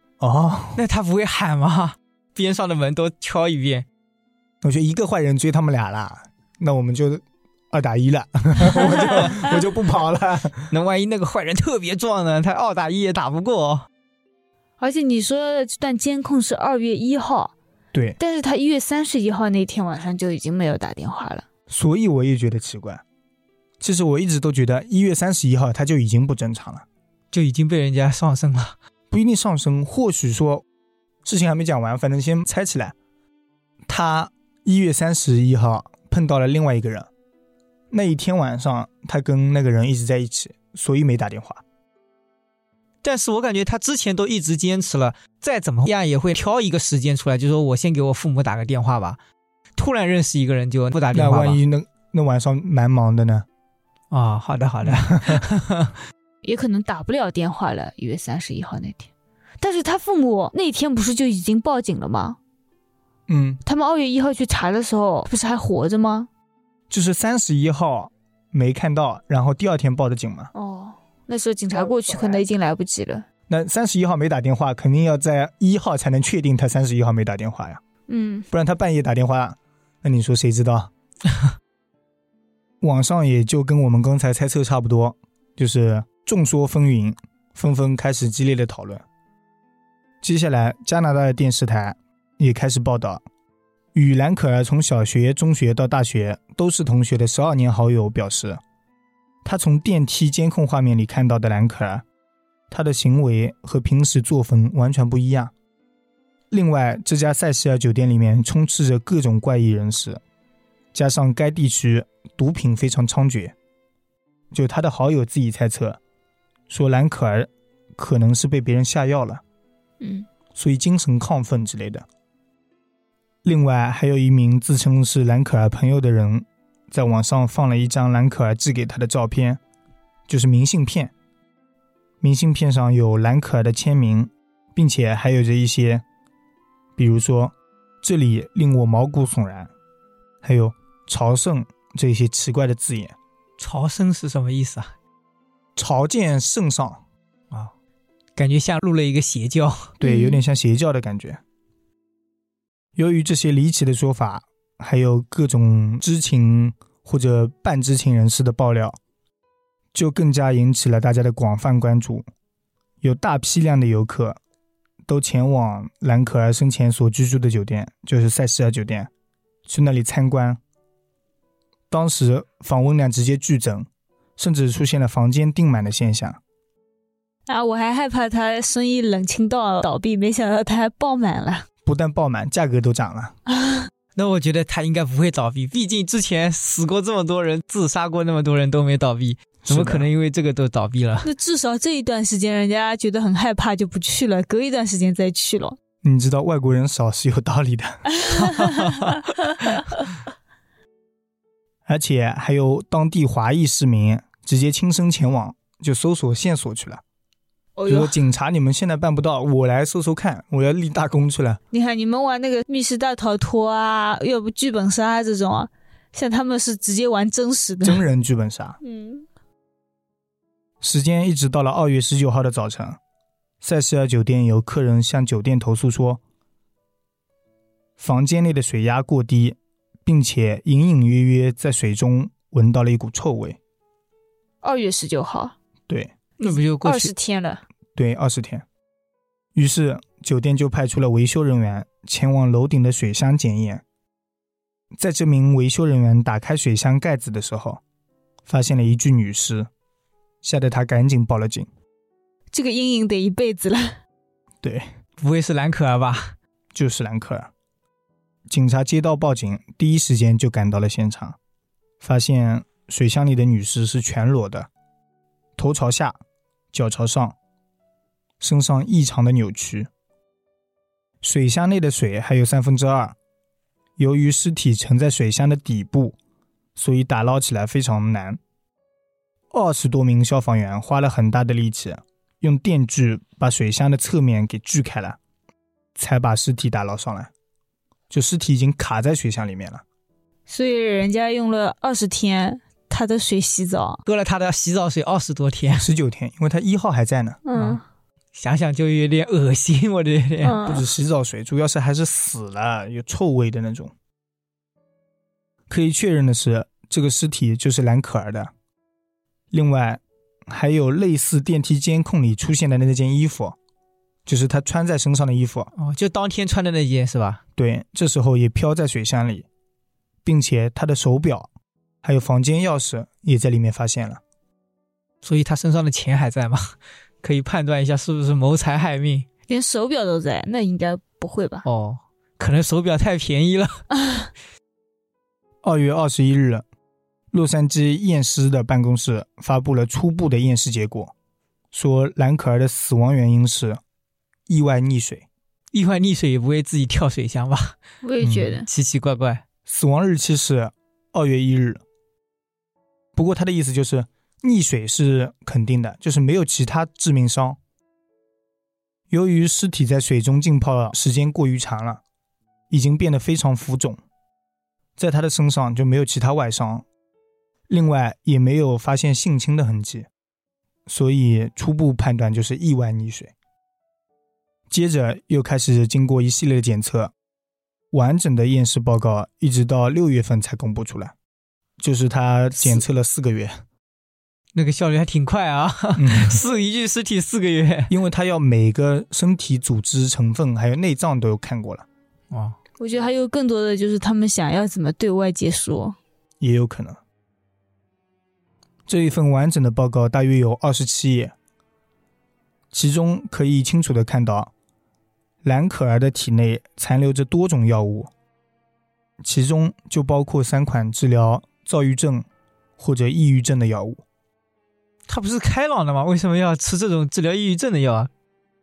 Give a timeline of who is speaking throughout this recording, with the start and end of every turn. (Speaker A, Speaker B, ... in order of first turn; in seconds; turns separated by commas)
Speaker A: 0.2-0.8, Speaker B: 0.8-3.9, Speaker A: 4.6-10.7, Speaker B: 9.1-9.3, Speaker B: 10.7-13.9, Speaker C: 14.8-17.5, Speaker A: 17.9-18.2, Speaker C: 18.2-21.4, Speaker A: 21.7-23.0, Speaker A: 23.8-26.8, Speaker B: 27.3-28.7, Speaker A: 29.1-30.6, Speaker A: 31.2-32.9, Speaker A: 33.9-37.1, Speaker A: 37.9-41.6, Speaker B: 43.0-49.2, Speaker B: 49.8-51.6, Speaker A: 51.1-53.5, Speaker B: 54.1-56.0, Speaker A: 54.8-55.4, Speaker C: 56.4-59.1, Speaker C: 59.6-62.4, Speaker A: 63.3-63.6, Speaker C: 63.6-66.3, Speaker A: 66.9-70.5, Speaker C: 70.5-73.2, Speaker A: 73.5-77.8, Speaker C: 78.1-78.5, Speaker A: 78.5-80.9, Speaker A: 82.8-89.0, Speaker A: 90.2-93.2, Speaker A: 93.9-98.6, Speaker A: 99.4-102.0, Speaker A: 102.7-105.5, Speaker A: 106.5-110.2, Speaker A: 110.9-113.5, Speaker A: 114.5-116.0, Speaker A: 116.7-119.4, Speaker C: 120.0-120.3, Speaker A: 120.5-122.0, Speaker A: 123.4-129.6, Speaker A: 130.3-131.1, Speaker A: 132.2-136.0, Speaker A: 137.0-139.7, Speaker A: 140.4-143.2, Speaker B: 143.6-144.9, Speaker A: 145.8-147.0, Speaker B: 148.3-149.9, Speaker C: 150.0-150.4, Speaker A: 150.0-151.4, Speaker A: 152.9-159.0, Speaker A: 159.9-162.2, Speaker A: 163.0-164.4, Speaker A: 165.0-169.1, Speaker A: 169.7-170.6, Speaker A: 171.9-176.4, Speaker C: 177.5-181.7, Speaker A: 181.8-183.3, Speaker C: 183.5-183.9, Speaker B: 184.2-191.3, Speaker A: 189.6-190.1, Speaker C: 191.2-195.8, Speaker A: 196.0-198.3, Speaker C: 198.1-199.8, Speaker A: 201.8-207.0, Speaker C: 207.8-208.2, Speaker A: 207.9-211.6, Speaker C: 211.7-218.0, Speaker A: 217.8-218.8, Speaker C: 218.8-219.2, Speaker A: 220.8-223.0, Speaker A: 223.6-226.2, Speaker A: 228.0-233.6, Speaker C: 234.6-235.5, Speaker A: 235.9-236.1, Speaker B: 236.4-237.1, Speaker C: 236.4-237.6, Speaker A: 237.9-238.6, Speaker A: 239.5-243.8, Speaker A: 244.9-247.8, Speaker A: 248.4-249.7, Speaker A: 250.4-251.7, Speaker C: 252.5-254.0, Speaker B: 255.2-256.3, Speaker A: 256.7-257.5, Speaker A: 258.5-261.4, Speaker A: 262.0-264.7, Speaker A: 265.6-266.2, Speaker A: 266.7-267.4, Speaker A: 268.4-269.9, Speaker A: 271.2-273.1, Speaker A: 274.0-276.1, Speaker A: 276.8-278.4, Speaker A: 279.5-285.2, Speaker A: 285.9-287.3, Speaker A: 288.1-289.8, Speaker C: 290.5-294.0, Speaker B: 294.1-295.9, Speaker A: 295.8-297.4, Speaker C: 297.4-297.8, Speaker B: 297.5-297.8, Speaker B: 298.3-300.6, Speaker C: 300.4-300.8, Speaker A: 300.6-303.9, Speaker A: 305.7-308.5, Speaker A: 309.5-313.6, Speaker A: 314.2-315.7, Speaker B: 315.8-317.4, Speaker A: 317.6-319.4, Speaker A: 320.2-321.5, Speaker A: 322.0-324.2, Speaker B: 325.2-329.2, Speaker C: 329.5-331.6, Speaker B: 331.6-333.8, Speaker C: 334.0-334.3, Speaker A: 335.6-336.6, Speaker A: 337.3-341.1, Speaker A: 341.7-343.8, Speaker A: 344.5-345.2, Speaker B: 345.7-347.8, Speaker C: 348.0-348.7, Speaker A: 348.2-348.5, Speaker B: 348.6-349.4, Speaker A: 349.6-351.8, Speaker A: 353.1-357.6, Speaker A: 359.1-362.0, Speaker A: 362.7-364.0, Speaker A: 365.0-366.9, Speaker A: 367.7-370.1, Speaker A: 370.9-373.3, Speaker A: 374.7-377.1, Speaker A: 377.9-381.1, Speaker A: 381.8-383.6, Speaker B: 384.5-387.9, Speaker A: 386.0-386.4, Speaker A: 387.9-391.9, Speaker B: 392.3-392.6, Speaker C: 392.8-396.0, Speaker A: 396.4-397.0, Speaker A: 398.9-401.3, Speaker A: 402.7-404.5, Speaker A: 405.4-408.1, Speaker A: 409.2-412.2, Speaker A: 412.8-414.0, Speaker B: 415.1-418.1